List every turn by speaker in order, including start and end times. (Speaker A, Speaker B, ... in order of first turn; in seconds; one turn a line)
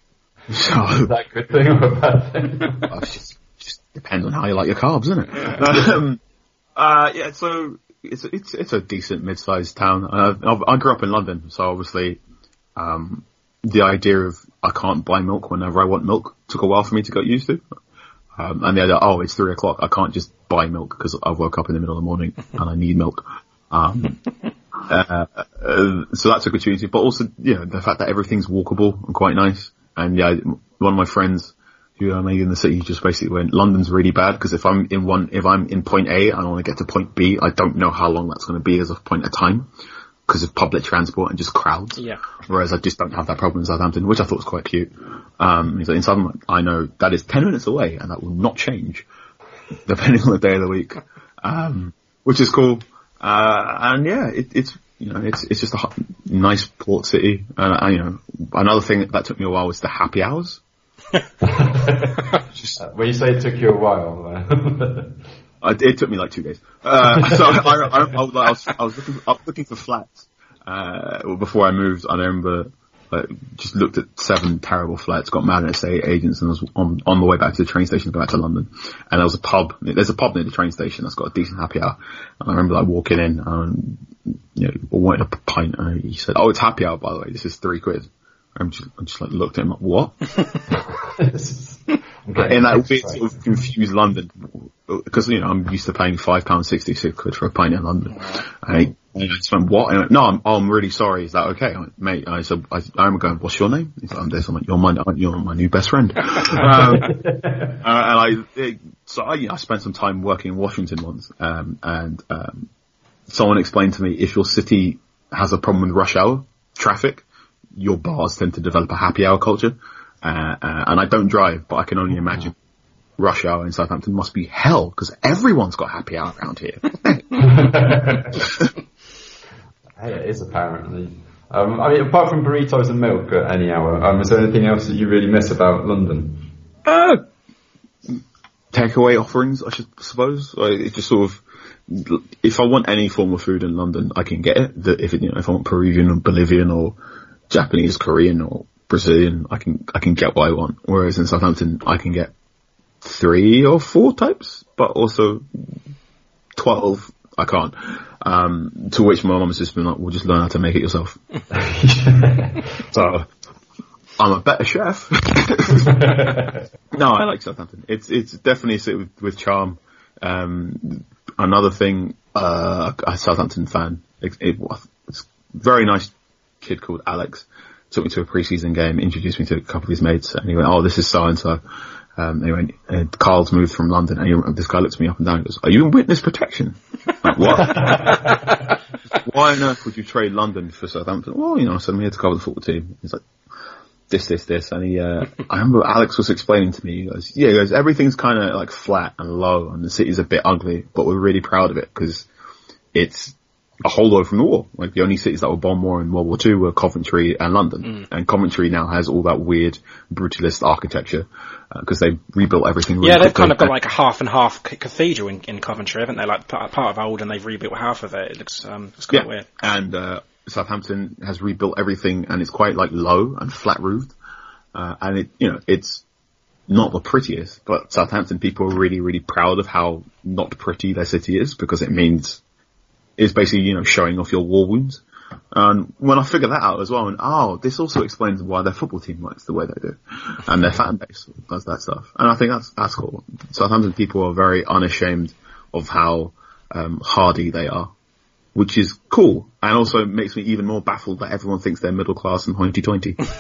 Speaker A: 0.5-1.1
Speaker B: 1.0-2.9
Speaker A: 2.9-6.2
Speaker A: 6.8-12.2
Speaker A: 12.8-17.6
Speaker A: 18.4-24.2
Speaker A: 24.8-39.7
Speaker A: 40.3-49.1
Speaker A: 49.9-60.6
Speaker B: 61.4-62.2
Speaker B: 62.7-65.1
Speaker A: 65.6-90.1
Speaker B: 67.1-67.8
Speaker B: 90.7-93.2
Speaker A: 92.3-107.1
Speaker C: 98.1-98.4
Speaker B: 106.6-107.8
Speaker A: 107.8-112.7
Speaker A: 113.3-117.2
Speaker A: 117.8-122.5
Speaker A: 123.2-128.7
Speaker B: 127.4-128.5
Speaker B: 130.0-136.5
Speaker A: 136.8-137.2
Speaker A: 138.7-147.0
Speaker A: 147.5-152.3
Speaker A: 153.0-155.5
Speaker A: 156.6-161.2
Speaker B: 161.5-162.6
Speaker A: 162.9-163.3
Speaker A: 164.2-166.2
Speaker B: 165.8-166.6
Speaker A: 166.9-181.6
Speaker A: 182.2-188.4
Speaker A: 189.1-193.2
Speaker A: 194.1-202.3
Speaker A: 202.9-213.7
Speaker C: 213.0-219.5
Speaker A: 219.1-224.1
Speaker A: 224.7-226.0
Speaker A: 226.7-232.4
Speaker A: 233.2-235.0
Speaker A: 235.5-247.9
Speaker A: 248.5-253.2